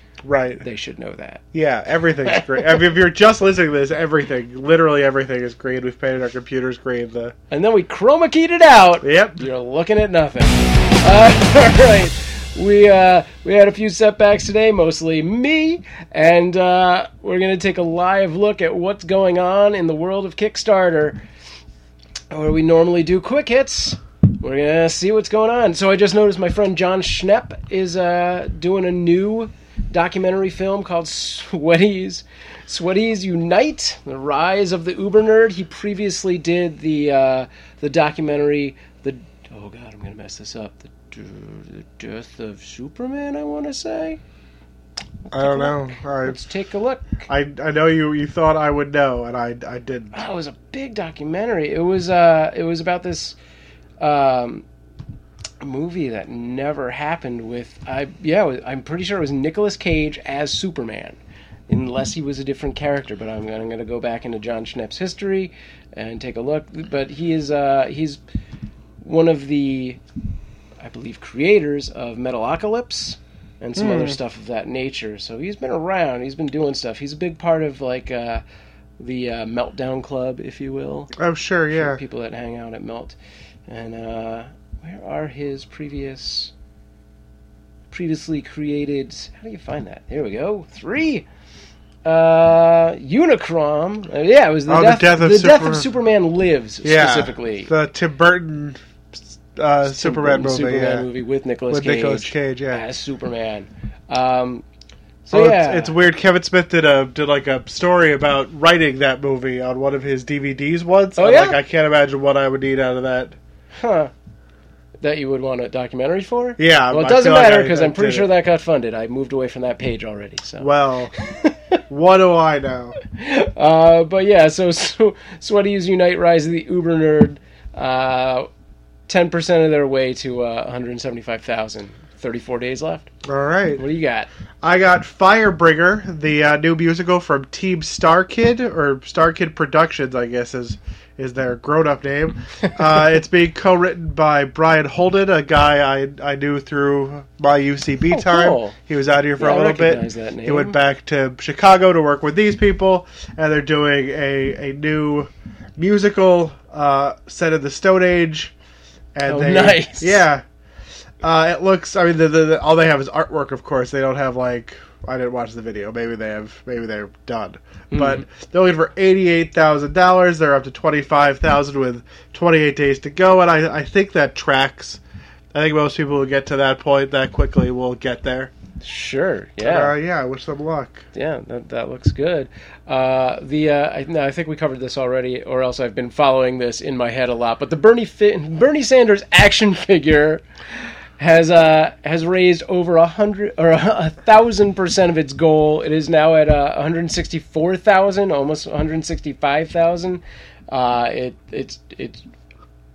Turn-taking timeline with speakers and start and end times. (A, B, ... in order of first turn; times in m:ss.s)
0:00.2-0:00.6 A
0:00.6-0:01.4 B
0:01.5-0:07.3 A
0:02.2-0:02.9 B
0:07.5-0:21.2 B
0:09.0-0:09.4 A
0:22.3-0:44.2 B
0:45.3-0:47.3 B
0:45.3-0:46.4 A
0:47.3-0:50.2 A
0:50.1-0:53.4 B
0:54.0-0:54.6 B
0:55.6-1:01.2 B
1:01.7-1:08.2 B
1:09.0-1:10.0 B
1:10.8-1:18.4 B
1:13.8-1:14.2 A
1:19.0-1:21.1 B
1:21.2-1:22.0 A
1:21.7-1:23.2 B
1:23.7-1:26.5 B
1:27.9-1:31.2 B
1:32.0-1:37.7 B
1:34.7-1:35.9 A
1:36.8-1:38.8 A
1:39.5-1:41.0 A
1:39.8-1:44.6 B
1:41.7-1:42.8 A
1:45.2-1:45.9 B
1:45.3-1:53.4 A
1:51.2-1:51.6 B
1:53.8-1:54.1 B
1:55.0-2:01.8 B
1:56.6-1:58.3 A
2:00.6-2:01.1 A
2:01.9-2:03.0 A
2:03.0-2:08.5 B
2:09.1-2:13.1 B
2:13.2-2:13.8 A
2:13.8-2:14.3 B
2:14.6-2:38.5 A
2:28.1-2:28.8 B
2:29.4-2:30.8 B
2:39.1-2:40.4 A
2:39.3-2:40.2 B
2:41.2-2:55.0 A
2:47.9-2:48.2 B
2:55.5-2:58.5 A
2:58.8-2:59.9 B
2:59.6-3:01.0 A
3:01.1-3:10.4 B
3:11.2-3:22.2 B